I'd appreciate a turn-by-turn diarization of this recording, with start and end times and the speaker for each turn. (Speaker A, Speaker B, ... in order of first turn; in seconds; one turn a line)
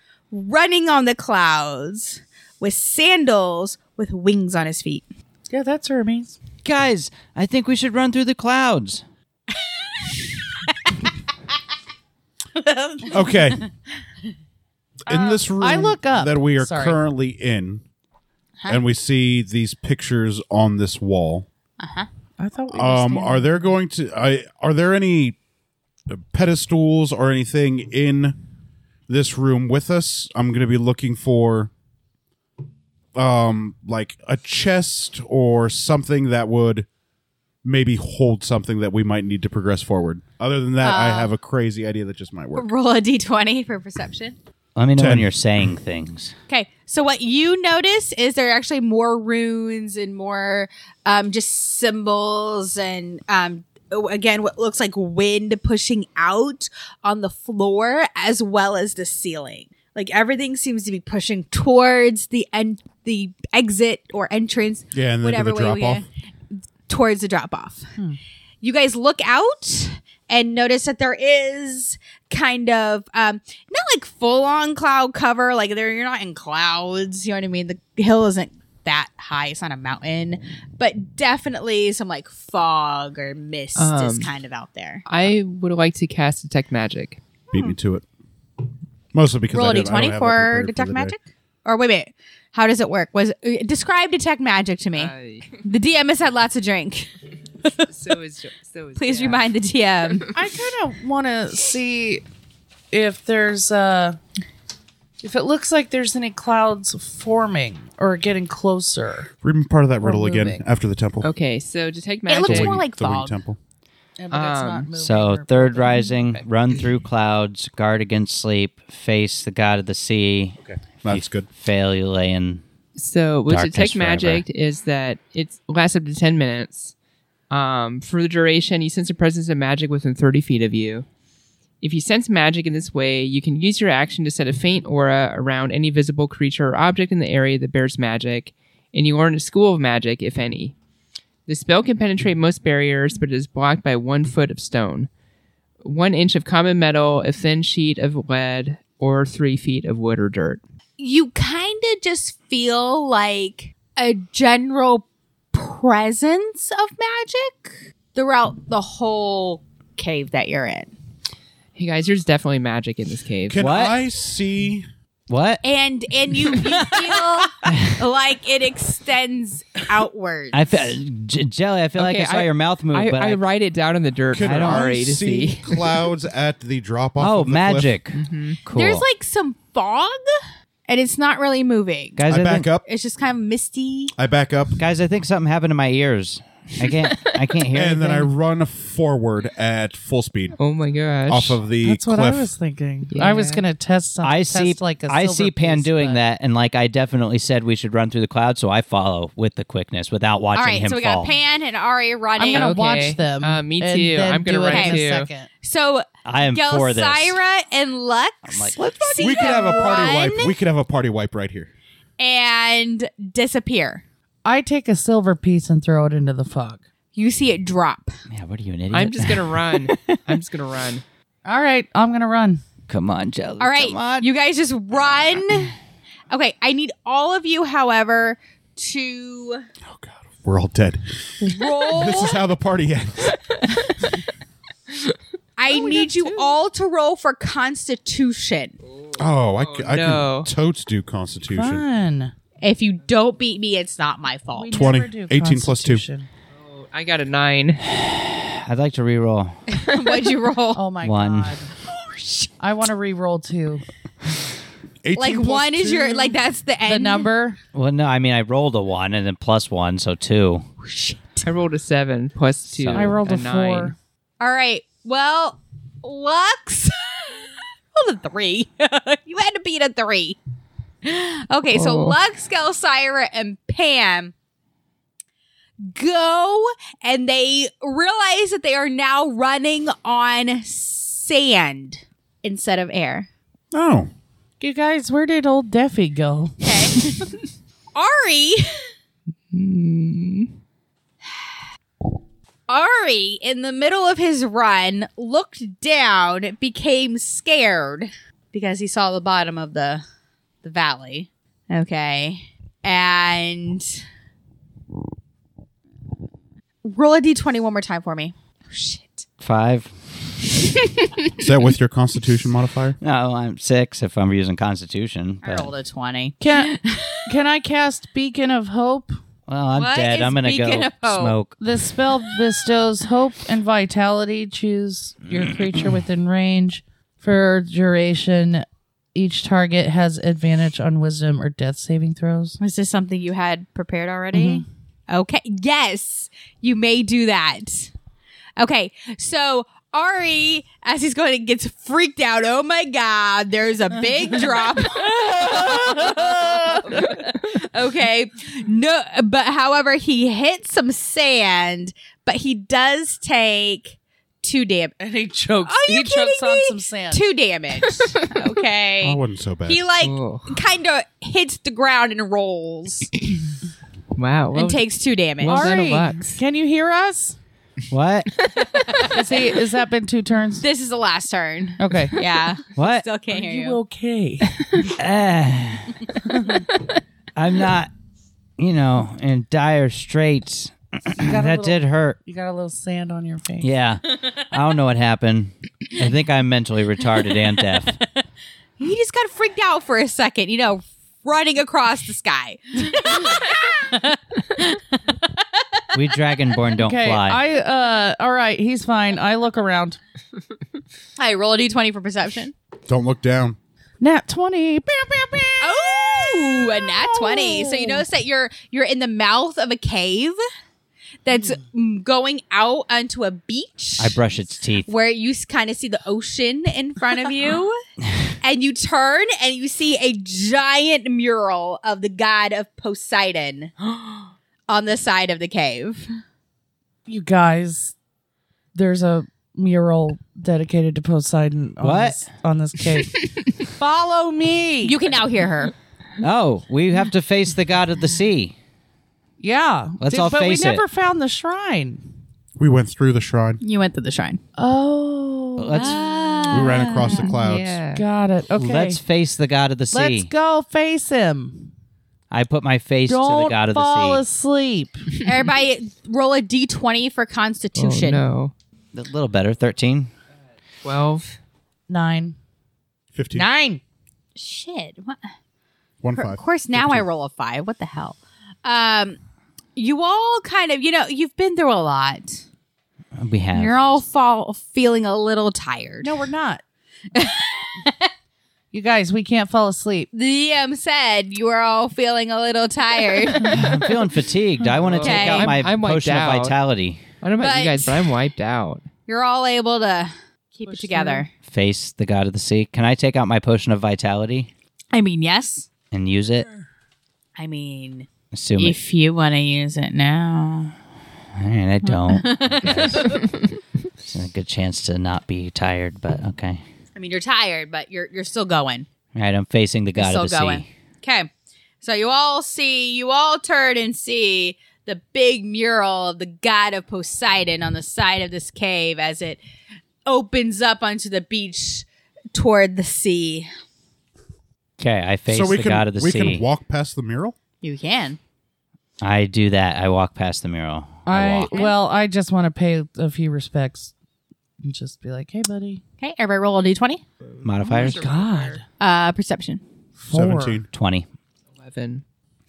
Speaker A: 0.3-5.1
Speaker B: 5.5-6.3
Speaker C: 6.6-9.0
Speaker A: 12.7-13.6
Speaker D: 13.1-13.6
Speaker D: 15.1-17.8
Speaker A: 15.1-15.4
Speaker B: 15.6-17.0
Speaker D: 18.7-21.5
Speaker A: 21.8-22.1
Speaker B: 22.4-23.7
Speaker D: 22.7-25.4
Speaker D: 26.1-28.4
Speaker D: 29.1-31.7
Speaker D: 33.1-36.9
Speaker D: 37.6-42.7
Speaker A: 40.8-41.3
Speaker A: 42.5-44.4
Speaker C: 44.8-46.4
Speaker D: 45.0-45.3
Speaker A: 46.5-66.0
Speaker D: 64.9-66.0
Speaker A: 66.9-67.9
Speaker A: 68.6-85.0
Speaker E: 83.8-84.3
Speaker E: 85.1-87.2
Speaker D: 87.5-88.0
Speaker D: 89.1-91.2
Speaker A: 89.5-97.1
Speaker E: 95.0-95.6
Speaker E: 97.9-99.5
Speaker A: 99.0-100.3
Speaker B: 100.3-102.2
Speaker B: 102.9-104.2
Speaker B: 105.2-109.3
Speaker D: 109.4-111.3
Speaker B: 110.0-110.6
Speaker E: 111.2-112.8
Speaker A: 112.3-113.4
Speaker D: 112.5-113.6
Speaker B: 114.2-116.4
Speaker E: 114.3-114.9
Speaker C: 115.0-122.6
Speaker D: 120.6-121.5
Speaker E: 123.0-126.9
Speaker C: 123.5-124.4
Speaker E: 127.5-131.1
Speaker E: 131.8-140.8
Speaker E: 141.5-145.1
Speaker E: 145.8-150.6
Speaker A: 151.0-160.9
Speaker E: 161.8-163.7
Speaker D: 163.5-164.9
Speaker C: 163.6-164.0
Speaker C: 165.3-165.6
Speaker A: 165.6-170.9
Speaker C: 167.7-167.9
Speaker C: 170.5-173.4
Speaker E: 172.0-175.9
Speaker D: 174.3-177.9
Speaker C: 174.4-174.9
Speaker C: 177.2-179.1
Speaker E: 178.1-178.6
Speaker A: 178.7-180.2
Speaker A: 180.9-182.2
Speaker C: 182.2-182.7
Speaker D: 182.3-182.8
Speaker A: 182.8-184.1
Speaker D: 184.2-184.8
Speaker C: 184.8-188.3
Speaker D: 187.7-190.6
Speaker E: 190.6-191.6
Speaker D: 191.3-192.5
Speaker B: 191.8-196.2
Speaker E: 193.1-193.6
Speaker C: 194.2-201.3
Speaker A: 200.6-202.8
Speaker B: 202.4-205.5
Speaker E: 202.5-205.3
Speaker A: 204.7-205.0
Speaker A: 205.6-210.6
Speaker C: 206.2-207.4
Speaker C: 208.5-209.4
Speaker D: 209.2-211.7
Speaker A: 212.2-214.0
Speaker B: 214.4-216.8
Speaker A: 217.2-218.1
Speaker C: 218.3-220.2
Speaker E: 218.9-221.0
Speaker B: 221.4-222.6
Speaker C: 222.9-224.3
Speaker A: 223.6-225.8
Speaker A: 226.3-229.7
Speaker D: 229.9-231.3
Speaker A: 231.4-232.4
Speaker D: 231.9-233.4
Speaker E: 234.9-235.2
Speaker A: 235.6-238.8
Speaker B: 235.7-236.6
Speaker E: 238.9-240.5
Speaker D: 239.2-241.8
Speaker B: 241.5-242.3
Speaker A: 242.6-244.9
Speaker B: 244.6-246.3
Speaker D: 244.7-246.0
Speaker E: 246.5-247.9
Speaker C: 247.9-249.6
Speaker A: 249.7-250.9
Speaker B: 250.7-251.7
Speaker C: 251.0-251.6
Speaker A: 252.1-252.5
Speaker B: 252.6-253.8
Speaker D: 255.0-256.4
Speaker A: 255.2-257.3
Speaker B: 256.9-257.6
Speaker C: 257.7-260.7
Speaker A: 260.8-261.5
Speaker E: 261.4-263.9
Speaker C: 262.7-263.2
Speaker B: 262.9-263.9
Speaker A: 264.4-270.4
Speaker A: 271.0-274.3
Speaker E: 271.7-272.2
Speaker A: 275.8-283.3
Speaker D: 283.7-284.1
Speaker B: 284.6-287.2
Speaker A: 286.6-287.3
Speaker A: 287.9-288.9
Speaker E: 289.5-290.5
Speaker A: 291.2-291.5
Speaker A: 292.7-300.0
Speaker A: 300.6-304.0
Speaker A: 306.8-309.2
Speaker C: 309.4-310.4
Speaker A: 310.8-311.1
Speaker D: 311.4-313.0
Speaker C: 313.0-315.7
Speaker A: 315.4-317.3
Speaker B: 316.4-316.8
Speaker B: 317.3-319.1
Speaker C: 319.5-321.6
Speaker A: 319.8-321.4
Speaker B: 321.6-332.6
Speaker A: 332.6-337.9
Speaker B: 334.3-334.6
Speaker A: 338.6-355.0
Speaker B: 345.1-347.2
Speaker B: 355.0-357.2
Speaker A: 355.6-363.1
Speaker D: 359.0-359.8
Speaker E: 360.0-360.6
Speaker E: 364.1-364.9
Speaker A: 364.5-365.8
Speaker E: 365.4-366.4
Speaker B: 365.5-367.4
Speaker C: 367.9-368.3
Speaker A: 368.5-369.4
Speaker B: 369.0-370.6
Speaker A: 370.6-373.8
Speaker B: 371.8-372.2
Speaker C: 372.8-373.1
Speaker B: 373.3-374.6
Speaker E: 374.6-374.8
Speaker C: 375.0-376.1
Speaker C: 377.4-377.9
Speaker C: 378.6-382.2
Speaker B: 381.2-383.7
Speaker C: 383.6-388.0
Speaker A: 388.8-395.9
Speaker C: 395.9-397.4
Speaker B: 396.8-400.0
Speaker A: 401.2-402.5
Speaker D: 402.9-403.6
Speaker B: 404.0-408.0
Speaker A: 405.6-410.4
Speaker A: 411.2-414.2
Speaker C: 414.0-414.9
Speaker A: 414.9-417.8
Speaker A: 418.4-423.7
Speaker A: 424.7-426.1
Speaker B: 427.1-427.9
Speaker B: 428.7-435.1
Speaker C: 431.8-432.2
Speaker A: 434.8-435.7
Speaker C: 436.2-438.5
Speaker B: 439.4-442.0
Speaker C: 440.0-440.8
Speaker D: 442.6-443.6
Speaker A: 443.6-444.4
Speaker B: 444.6-447.2
Speaker C: 445.6-446.0
Speaker A: 445.8-447.3
Speaker D: 446.5-447.8
Speaker E: 447.3-448.1
Speaker B: 447.9-449.0
Speaker C: 448.5-450.3
Speaker B: 449.9-451.7
Speaker C: 452.3-454.2
Speaker B: 453.1-455.1
Speaker A: 455.2-458.2
Speaker E: 457.8-458.5
Speaker C: 458.9-460.1
Speaker E: 460.8-461.4
Speaker B: 461.9-462.4
Speaker D: 463.1-463.5
Speaker B: 463.3-463.8
Speaker A: 464.4-465.2
Speaker D: 466.0-467.1
Speaker A: 466.1-469.2
Speaker A: 469.8-472.4
Speaker C: 473.2-473.9
Speaker A: 473.5-476.2
Speaker B: 476.0-476.6
Speaker A: 477.1-478.1
Speaker B: 478.7-480.1
Speaker A: 480.1-483.6
Speaker C: 483.4-487.0
Speaker E: 484.7-486.6
Speaker A: 485.0-485.6
Speaker E: 487.2-488.9
Speaker A: 487.4-488.1
Speaker A: 489.1-491.3
Speaker B: 490.7-491.2
Speaker C: 491.4-494.5
Speaker A: 494.9-495.7
Speaker C: 495.9-496.5
Speaker A: 497.4-500.8
Speaker C: 498.3-498.8
Speaker C: 501.4-503.2
Speaker A: 501.9-503.2
Speaker C: 504.0-506.6
Speaker A: 507.0-508.9
Speaker C: 509.1-510.7
Speaker A: 510.0-511.3
Speaker A: 511.8-519.4
Speaker A: 520.1-523.5
Speaker C: 524.8-526.4
Speaker D: 525.3-527.4
Speaker A: 527.6-528.2
Speaker C: 529.0-531.5
Speaker B: 531.1-533.9
Speaker A: 531.5-531.8
Speaker B: 534.6-535.8
Speaker A: 536.0-537.0
Speaker C: 537.4-538.1
Speaker E: 537.6-538.6
Speaker B: 537.8-538.6
Speaker A: 538.8-539.6
Speaker B: 540.0-540.6
Speaker D: 540.1-540.7
Speaker C: 540.7-541.1
Speaker E: 541.5-542.0